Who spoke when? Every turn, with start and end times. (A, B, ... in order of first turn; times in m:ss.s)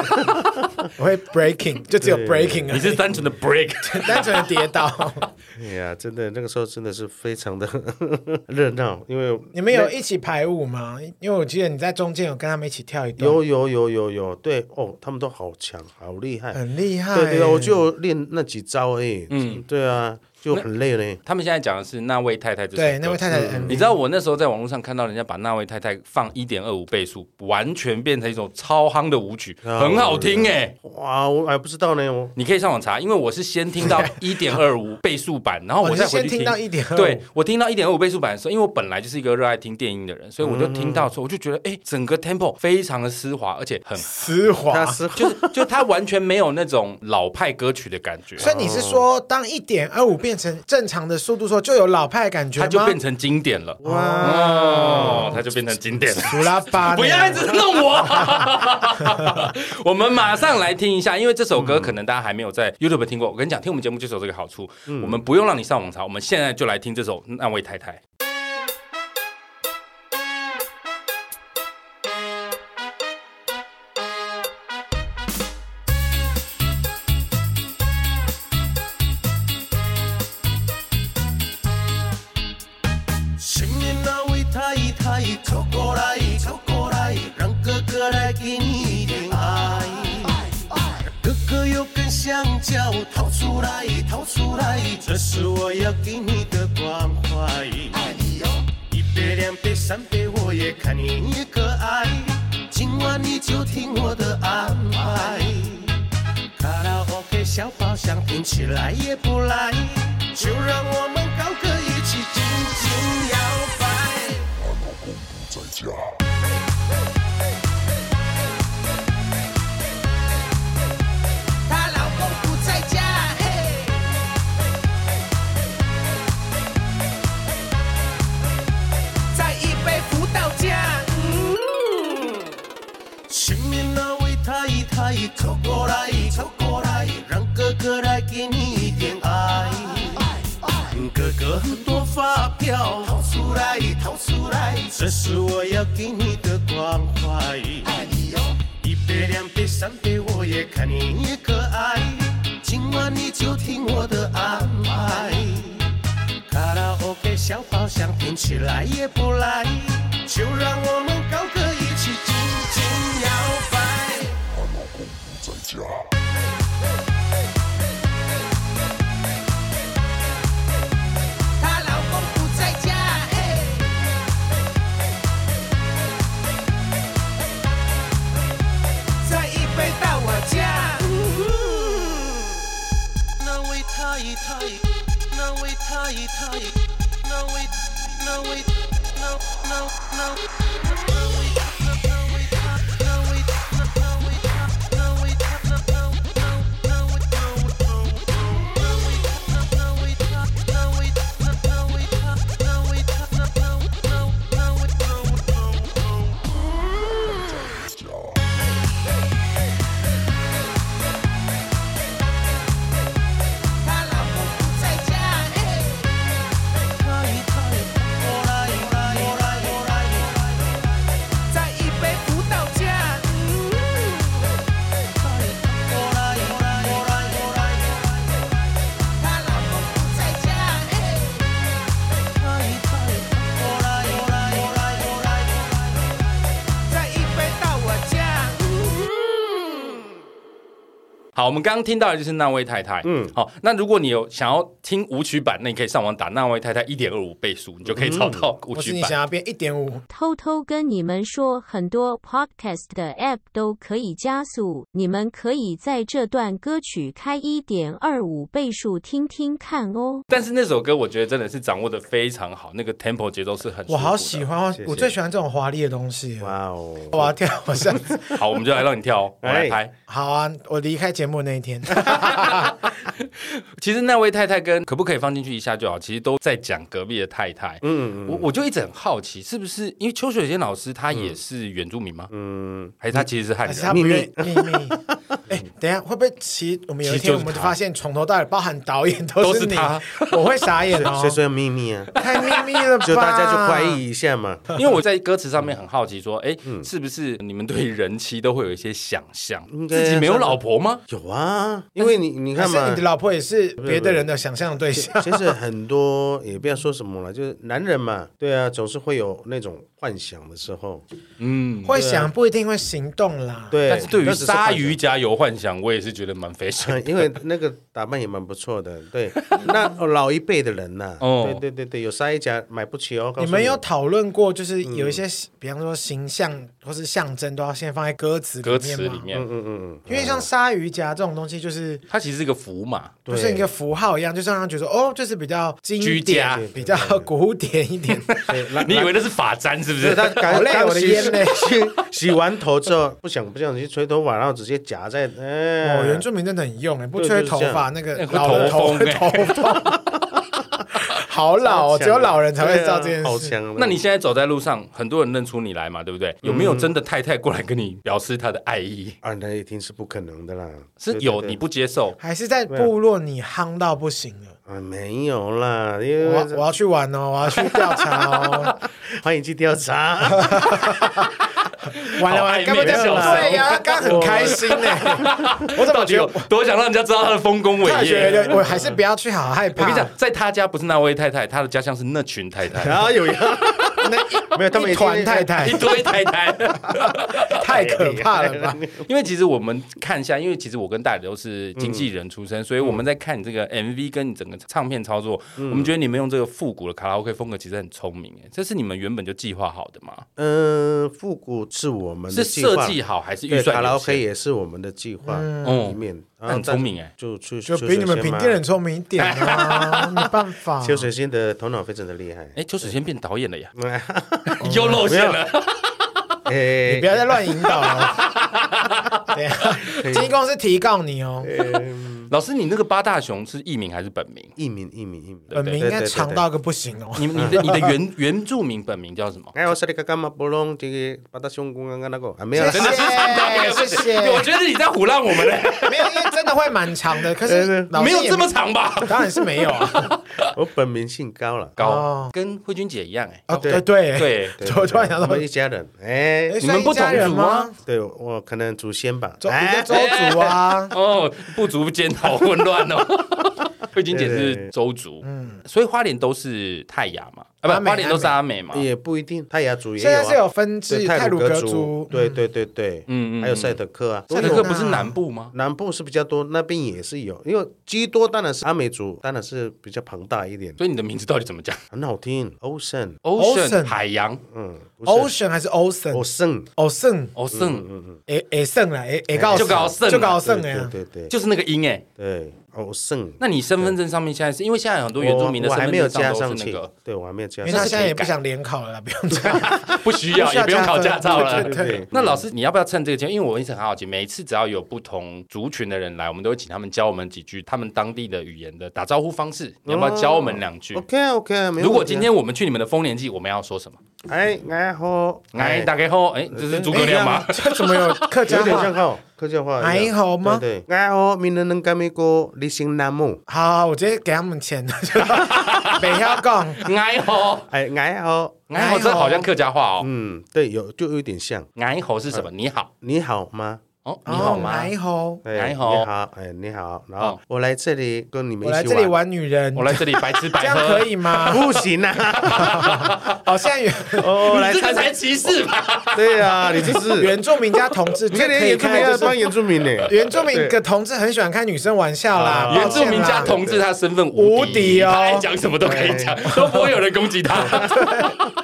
0:00.2-0:00.8 A
0:01.0-0:03.0 B
0:02.0-0:03.2 A
0:02.7-0:04.7 C
0:03.8-0:05.3 B
0:05.6-0:09.9 A
0:09.5-0:13.4 B
0:13.2-0:16.6 A
0:16.5-0:17.8 B
0:17.1-0:21.2 A
0:19.3-0:19.6 C
0:21.2-0:30.7 C
0:22.8-0:23.9 B
0:23.3-0:23.8 A
0:29.6-0:32.3 A
0:32.4-0:44.2 C
0:35.8-0:37.2 B
0:40.4-0:41.1 A
0:44.0-0:45.0 B
0:44.7-0:45.7 A
0:45.2-0:48.4 C
0:48.4-0:49.0 A
0:48.4-0:53.0 B
0:52.6-1:08.0 C
0:53.8-0:55.5 A
0:53.8-0:55.4 B
0:56.2-0:58.5 B
0:59.0-0:59.3 B
1:01.5-1:02.0 A
1:04.9-1:05.2 A
1:23.4-1:30.5 D
1:31.0-1:54.6 D
2:01.7-2:04.1 D
2:09.3-2:11.4 D
2:13.3-2:35.9 D
2:36.5-2:44.6 D
2:51.6-2:53.9 D
2:59.2-3:02.4 D
3:03.4-3:08.8 D
3:09.3-3:10.4 D
3:11.1-3:25.9 D
3:33.8-3:36.2 D
3:36.8-3:40.8 D
3:41.4-3:44.5 D
3:45.1-3:48.4 D
3:49.2-3:51.5 D
3:52.3-3:56.0 D
3:56.9-3:59.9 D
4:01.3-4:09.2 C
4:03.0-4:03.3 A
4:07.8-4:08.5 A
4:08.7-4:10.0 B
4:10.1-4:20.2 E
4:20.3-4:24.5 C
4:23.9-4:26.5 B
4:24.8-4:25.1 A
4:26.4-4:28.4 A
4:27.1-4:28.3 B
4:28.3-4:29.9 C
4:29.4-4:29.8 A
4:30.1-4:32.8 B
4:32.0-4:42.3 C
4:37.8-4:38.5 A
4:42.3-4:43.3 A
4:43.0-4:44.2 C
4:43.6-4:51.4 B
4:43.9-4:45.6 A
4:47.0-4:47.8 C
4:49.4-4:50.6 C
4:50.8-4:52.1 A
4:52.1-4:54.0 B
4:52.2-4:52.8 C
4:53.0-4:54.7 A
4:54.7-5:01.0 C
4:59.7-5:03.0 A
5:02.0-5:05.5 B
5:03.8-5:04.3 A
5:04.9-5:11.0 A
5:11.4-5:12.0 C
5:11.8-5:13.8 B
5:11.9-5:12.3 A
5:13.7-5:15.0 A
5:13.9-5:17.3 C
5:16.8-5:23.8 A
5:21.2-5:21.6 C
5:23.4-5:29.3 B
5:24.8-5:25.2 A
5:28.6-5:29.4 C
5:29.3-5:30.5 A
5:30.1-5:32.0 B
5:32.1-5:33.2 C
5:33.2-5:33.7 A
5:33.3-5:38.3 B
5:36.0-5:36.6 C
5:36.5-5:37.3 A
5:38.1-5:40.7 C
5:38.5-5:39.2 A
5:40.0-5:46.2 A
5:40.5-5:41.7 B
5:45.8-5:49.9 B
5:47.2-5:47.9 A
5:48.1-5:49.7 C
5:48.4-5:48.9 A
5:51.0-5:53.5 B
5:51.6-5:54.0 A
5:53.8-5:59.2 C
5:56.4-5:56.9 A
5:59.2-6:01.6 A
6:01.0-6:02.2 C
6:02.2-6:04.6 B
6:04.7-6:06.6 A
6:06.2-6:08.7 B
6:08.5-6:11.0 A
6:10.3-6:11.3 B
6:12.0-6:18.6 C
6:12.1-6:16.5 B
6:12.8-6:15.5 A
6:17.8-6:20.1 B
6:18.1-6:19.0 A
6:19.8-6:23.1 C
6:22.7-6:26.0 A
6:23.6-6:24.0 C
6:24.0-6:25.9 B
6:25.6-6:27.7 C
6:27.4-6:28.8 B
6:27.7-6:29.1 A
6:29.0-6:40.2 C
6:31.8-6:32.0 A
6:35.6-6:35.9 A
6:40.4-6:48.6 A
6:42.3-6:44.2 C
6:45.2-6:45.8 B
6:45.6-6:47.1 C
6:47.7-6:51.1 B
6:49.2-6:50.3 C
6:50.8-6:52.9 A
6:52.6-6:53.7 C
6:53.7-6:55.4 A
6:54.5-6:56.1 C
6:54.6-6:55.0 B
6:56.4-6:57.2 A
6:56.8-6:58.2 B
6:57.8-6:59.2 C
6:59.3-7:01.5 B
7:00.0-7:00.3 A
7:01.4-7:02.3 A
7:02.3-7:04.5 C
7:04.6-7:06.4 A
7:05.5-7:05.8 C
7:05.5-7:07.9 B
7:07.2-7:09.5 C
7:07.3-7:07.6 A
7:09.5-7:13.6 A
7:12.5-7:14.5 B
7:12.6-7:16.5 C
7:15.8-7:20.1 B
7:17.4-7:17.9 A
7:17.9-7:20.5 C
7:20.5-7:21.7 A
7:21.8-7:24.6 C
7:21.8-7:22.3 B
7:23.5-7:25.4 B
7:23.6-7:23.8 A
7:24.6-7:30.1 A
7:26.5-7:27.8 B
7:26.6-7:27.7 C
7:29.4-7:30.9 B
7:29.9-7:38.9 C
7:34.1-7:34.7 A
7:35.2-7:35.6 B
7:37.6-7:38.4 B
7:38.7-7:44.8 A
7:40.0-7:42.4 B
7:43.1-7:43.8 C
7:44.3-7:45.2 B
7:44.3-7:45.5 C
7:45.5-7:50.8 A
7:50.8-7:51.8 C
7:51.9-7:53.2 A
7:53.2-7:54.4 C
7:53.4-7:54.0 B
7:54.5-7:55.3 A
7:55.0-7:57.3 B
7:56.1-7:56.7 A
7:57.4-7:57.8 C
7:57.5-7:58.2 A
7:58.3-8:00.9 B
7:59.3-8:01.3 A
7:59.5-8:00.4 C
8:01.3-8:02.0 C
8:02.2-8:03.9 A
8:03.4-8:06.9 C
8:05.2-8:08.1 A
8:07.6-8:12.0 B
8:07.6-8:08.3 C
8:09.4-8:21.0 C
8:11.2-8:12.4 A
8:19.8-8:22.3 A
8:21.8-8:24.0 C
8:24.3-8:25.9 A
8:25.5-8:28.7 C
8:26.5-8:27.4 A
8:26.9-8:29.0 B
8:28.4-8:33.4 A
8:29.8-8:30.6 B
8:33.5-8:36.9 B
8:35.2-8:37.7 C
8:37.7-8:38.6 A
8:38.7-8:40.1 C
8:38.7-8:39.5 B
8:40.0-8:41.7 A
8:41.8-8:42.9 C
8:43.0-8:44.8 A
8:44.0-8:44.9 C
8:44.2-8:45.4 B
8:45.4-8:49.2 A
8:45.5-8:46.1 C
8:48.6-8:51.7 B
8:49.8-8:51.6 C
8:51.4-8:53.1 A
8:52.4-8:53.4 C
8:52.4-8:54.3 B
8:54.2-8:55.5 A
8:54.3-8:57.0 C
8:56.1-8:57.3 A
8:57.1-8:59.4 B
8:58.3-9:00.8 A
9:00.0-9:03.5 B
9:02.3-9:03.8 A
9:02.7-9:08.5 C
9:04.3-9:06.2 B
9:05.8-9:06.4 A
9:07.6-9:08.3 A
9:07.8-9:08.3 B